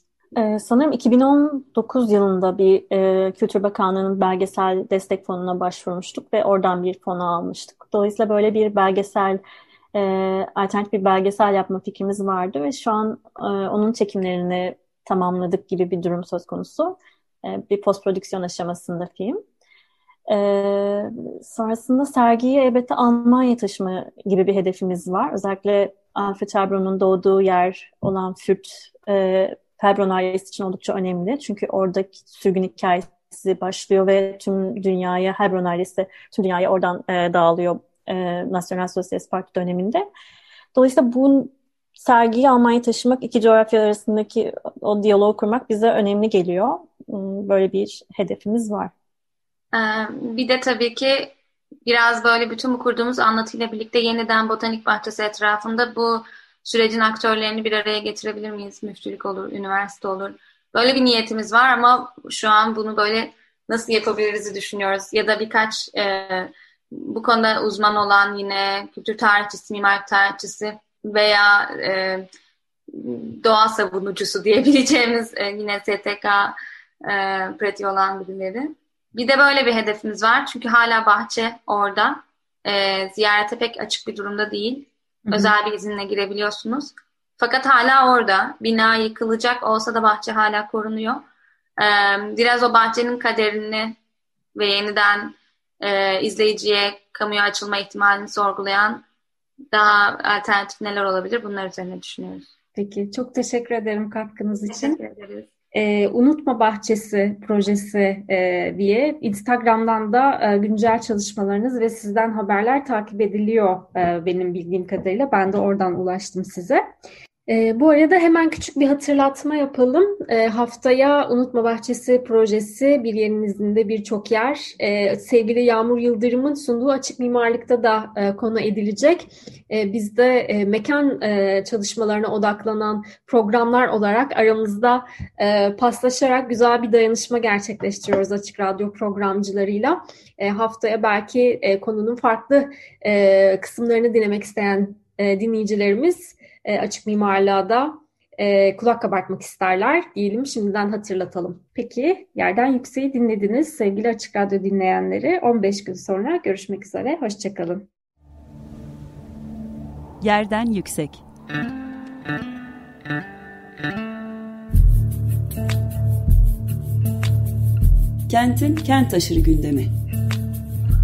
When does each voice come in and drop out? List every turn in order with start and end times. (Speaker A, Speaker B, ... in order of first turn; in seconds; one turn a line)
Speaker A: 0.4-9.4
Speaker A: 9.9-19.4
Speaker A: 20.3-40.0
Speaker A: 40.8-48.9
Speaker B: 49.7-51.3
Speaker B: 51.9-72.3
Speaker B: 72.9-91.2
Speaker C: 85.3-85.5
Speaker B: 91.8-94.0
Speaker B: 94.5-99.0
Speaker B: 99.7-102.5
Speaker C: 102.8-105.0
Speaker B: 104.7-105.5
Speaker C: 105.7-116.8
Speaker C: 117.5-157.9
Speaker D: 160.2-161.2
Speaker D: 168.3-169.9